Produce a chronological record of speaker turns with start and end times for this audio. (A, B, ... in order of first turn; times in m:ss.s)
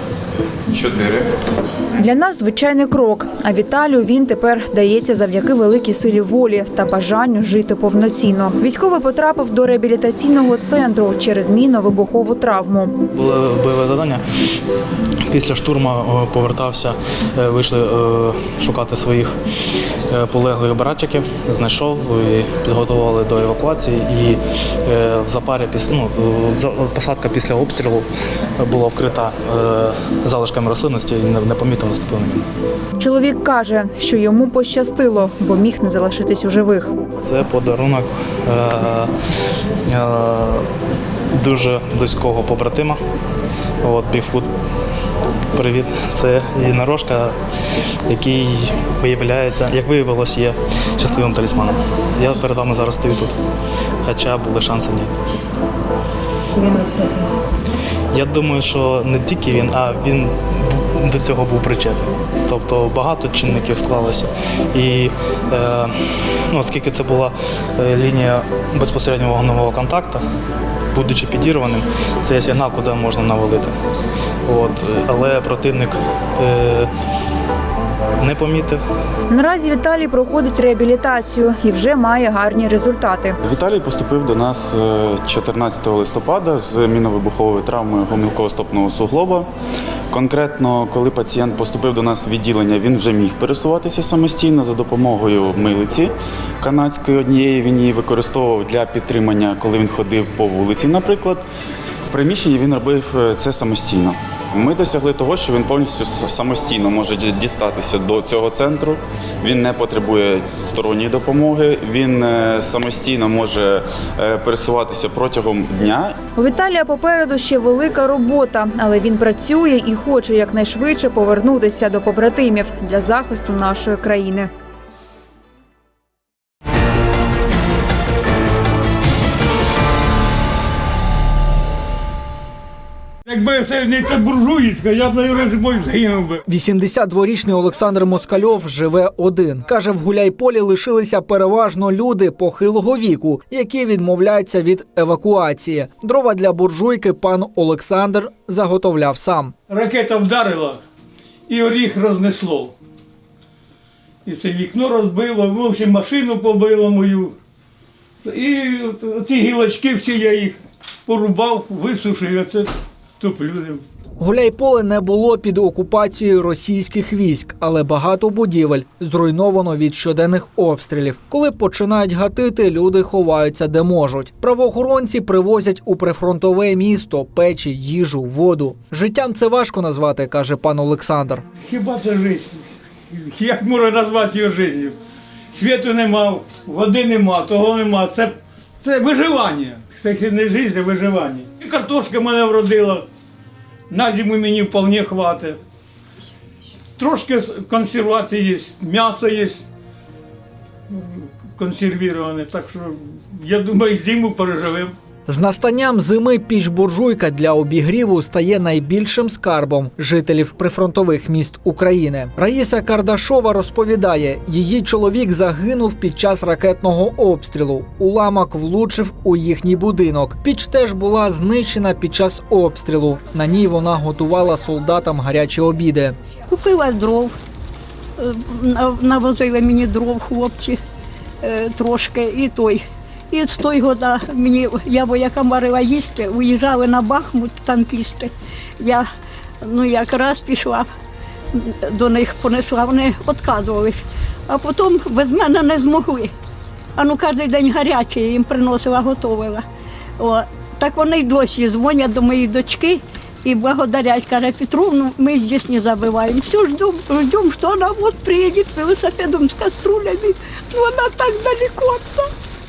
0:00.7-0:01.3 A
0:02.0-0:12.9 B
0:13.1-0:14.2 C
0:15.3-0:19.3 C
0:20.1-0:28.1 C
0:28.6-0:32.4 C
0:33.0-0:36.9 B
0:37.2-0:39.1 C
0:39.9-0:40.7 C
0:41.3-0:43.0 C
0:43.8-0:44.5 C
0:45.5-0:47.4 C
0:48.1-0:53.3 C
0:54.0-0:55.1 C
0:58.1-1:05.9 C
1:06.5-1:10.2 C
1:10.9-1:13.7 C
1:14.4-1:16.9 C
1:18.2-1:18.8 C
1:19.3-1:23.4 B
1:23.4-1:29.5 A
1:30.1-1:41.4 A
1:42.1-1:56.1 A
1:56.4-2:04.5 B
2:13.3-2:16.4 D
2:16.5-2:29.5 E
2:29.7-2:30.8 D
2:31.5-2:32.7 D
2:34.2-2:37.3 D
2:38.2-2:43.8 D
2:44.2-3:01.4 E
3:01.6-3:05.0 D
3:05.5-3:13.0 D
3:13.9-3:15.6 D
3:17.0-3:19.6 D
3:20.9-3:24.9 D
3:25.3-3:46.2 E
3:46.5-3:47.3 F
3:48.2-3:50.8 F
3:51.4-3:59.1 F
3:59.6-4:00.9 F
4:01.5-4:06.3 F
4:07.0-4:09.6 F
4:10.2-4:22.3 F